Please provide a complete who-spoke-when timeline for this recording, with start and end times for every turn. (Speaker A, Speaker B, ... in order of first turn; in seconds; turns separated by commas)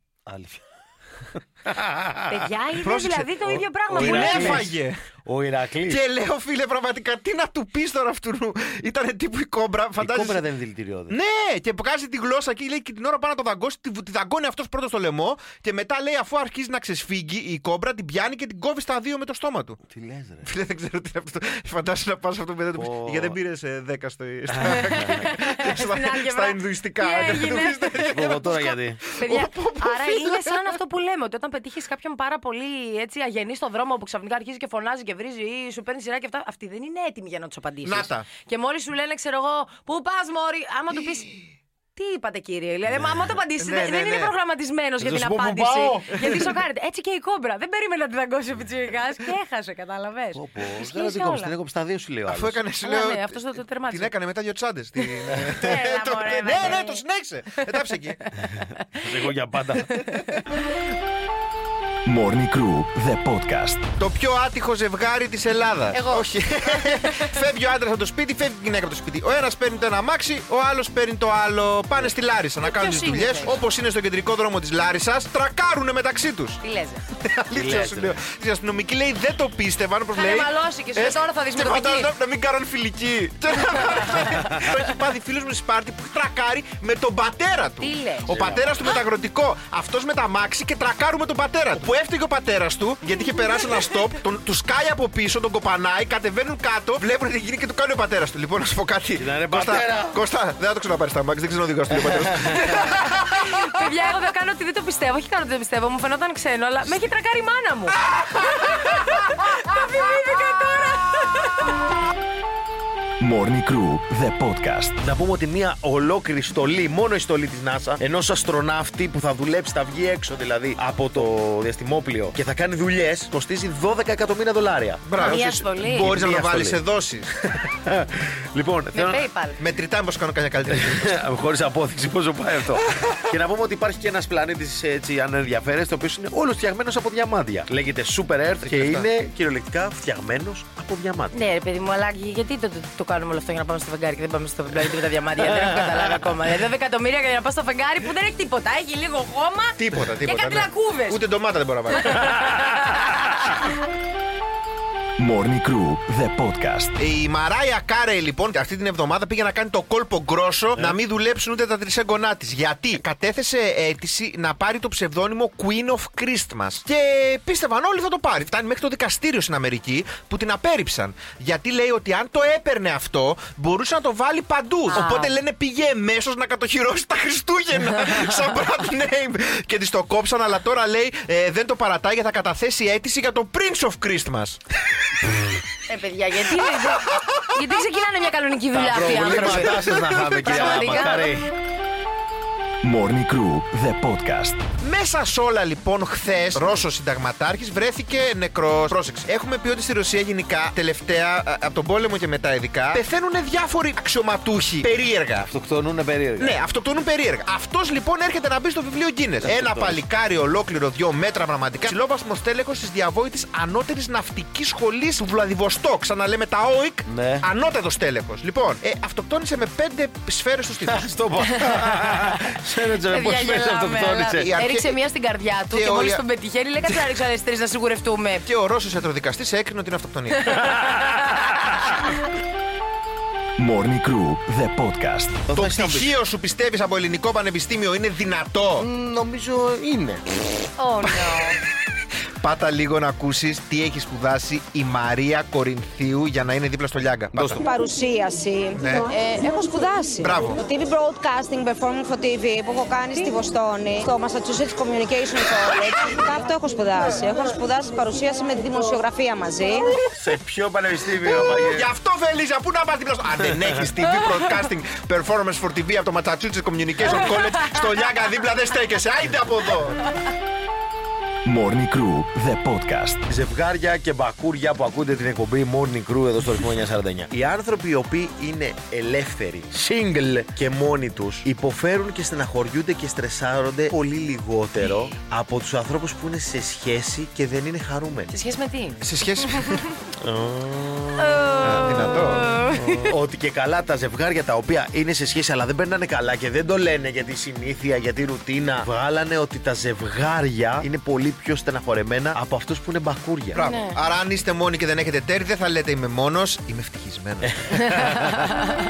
Speaker A: 0.3-0.6, Speaker A: 1.6-2.2, Speaker B: 2.3-4.7, Speaker C: 2.8-3.3, Speaker A: 3.5-6.0, Speaker C: 3.9-5.0, Speaker C: 5.9-10.4, Speaker A: 10.0-11.1, Speaker C: 11.1-19.8, Speaker A: 19.9-20.5, Speaker C: 20.4-30.6, Speaker A: 22.8-23.4, Speaker A: 24.5-25.3, Speaker B: 25.2-41.4, Speaker A: 28.1-29.0, Speaker C: 37.9-38.3, Speaker B: 42.0-51.5, Speaker C: 43.6-44.3, Speaker A: 45.0-46.4, Speaker A: 50.4-52.6, Speaker C: 52.3-58.2, Speaker B: 52.8-54.1, Speaker B: 55.6-57.0, Speaker A: 59.0-60.0, Speaker D: 62.1-63.9, Speaker C: 64.0-76.6, Speaker B: 65.9-67.2, Speaker B: 72.6-73.6, Speaker B: 76.6-77.0, Speaker C: 77.2-103.0, Speaker A: 77.5-78.2, Speaker B: 80.1-82.1, Speaker B: 87.8-88.5, Speaker A: 88.3-88.9, Speaker A: 99.2-100.2, Speaker A: 102.0-102.7, Speaker B: 102.6-111.5, Speaker D: 113.2-115.0, Speaker A: 115.0-126.8, Speaker C: 125.0-127.3, Speaker B: 125.2-126.2, Speaker A: 127.5-129.2, Speaker B: 128.9-129.6, Speaker C: 129.6-131.2, Speaker A: 130.8-141.4, Speaker C: 138.6-139.1, Speaker B: 141.3-151.2, Speaker C: 149.8-152.4, Speaker B: 152.0-152.2, Speaker D: 155.2-156.9, Speaker C: 157.0-184.6, Speaker B: 174.9-175.3, Speaker B: 185.9-191.3, Speaker C: 187.1-187.4, Speaker A: 188.7-191.4, Speaker C: 190.3-191.0, Speaker D: 192.8-194.6, Speaker C: 194.8-205.5, Speaker A: 205.4-206.6, Speaker C: 206.4-221.1, Speaker A: 209.4-210.0, Speaker A: 217.1-217.5, Speaker A: 220.8-224.5, Speaker B: 223.1-228.4, Speaker C: 224.4-225.0, Speaker C: 225.7-226.2, Speaker C: 228.4-230.7, Speaker D: 233.6-235.4, Speaker A: 235.5-236.1, Speaker C: 235.5-238.9, Speaker A: 238.8-240.7, Speaker B: 240.8-241.6, Speaker C: 241.2-241.5, Speaker C: 242.4-247.6, Speaker A: 247.3-247.7, Speaker E: 247.6-260.0, Speaker C: 248.8-249.1, Speaker C: 250.2-250.6, Speaker A: 260.1-261.9, Speaker C: 261.2-270.0, Speaker D: 271.4-273.2, Speaker A: 273.3-288.3, Speaker B: 288.3-289.1, Speaker C: 289.0-289.8, Speaker A: 290.2-291.6, Speaker B: 291.2-293.1, Speaker C: 291.6-292.5, Speaker A: 292.7-303.6, Speaker C: 303.5-308.0, Speaker B: 303.6-304.0, Speaker A: 307.6-308.4